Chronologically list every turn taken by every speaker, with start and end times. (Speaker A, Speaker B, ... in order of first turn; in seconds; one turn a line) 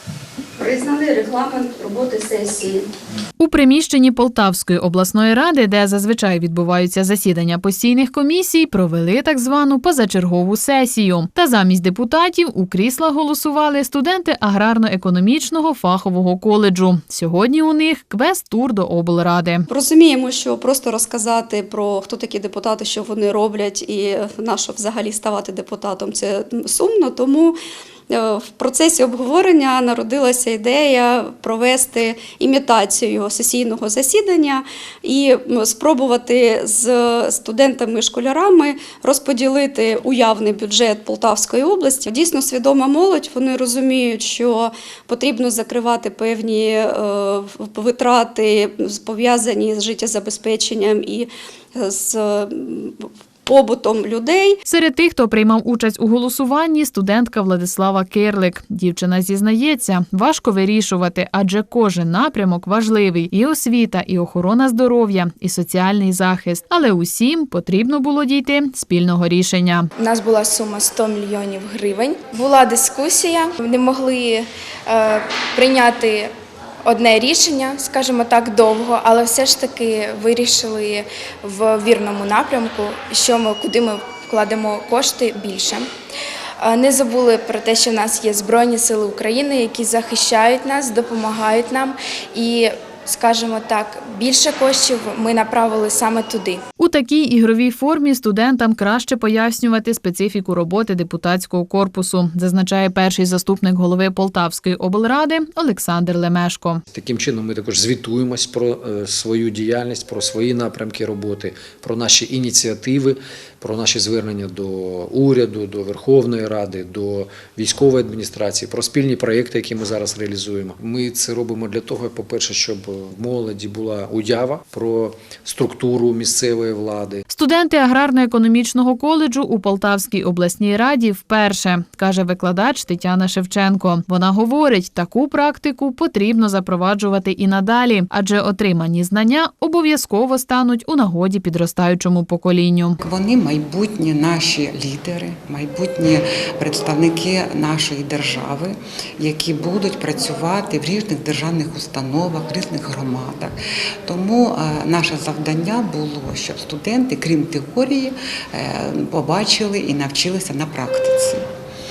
Speaker A: 0.6-2.9
Speaker B: 3.4-19.7
Speaker A: 19.7-27.6
Speaker A: 28.1-54.6
Speaker B: 54.7-69.9
Speaker C: 70.0-76.3
Speaker C: 76.8-85.8
Speaker C: 86.6-96.6
Speaker B: 96.8-106.8
Speaker D: 106.9-127.2
Speaker B: 127.3-142.9
Speaker E: 143.0-161.4